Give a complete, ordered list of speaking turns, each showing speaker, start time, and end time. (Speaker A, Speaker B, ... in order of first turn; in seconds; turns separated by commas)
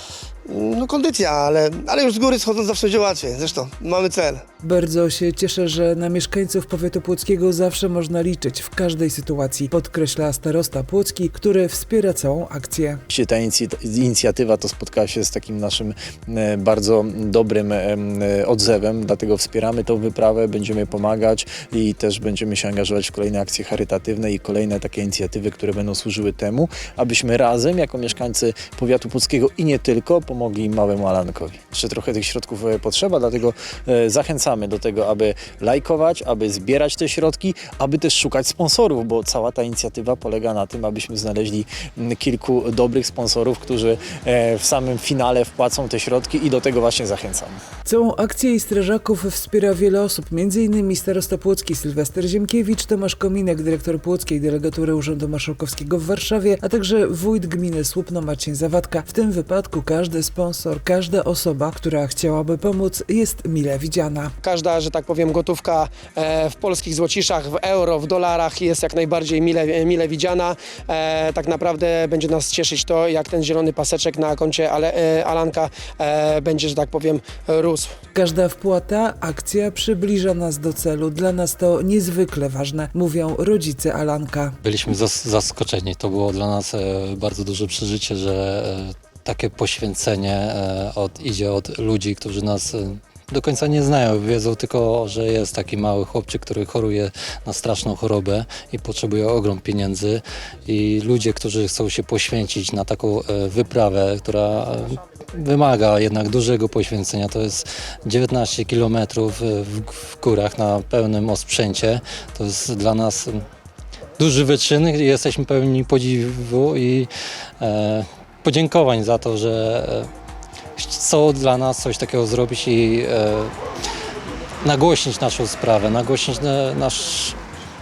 Speaker A: 0.5-4.4, Speaker B: 4.6-13.0, Speaker C: 13.1-47.6, Speaker B: 47.8-64.3, Speaker D: 64.4-77.9, Speaker B: 78.1-84.6, Speaker E: 84.6-113.4, Speaker E: 114.2-120.1, Speaker E: 120.8-123.5, Speaker E: 124.6-127.4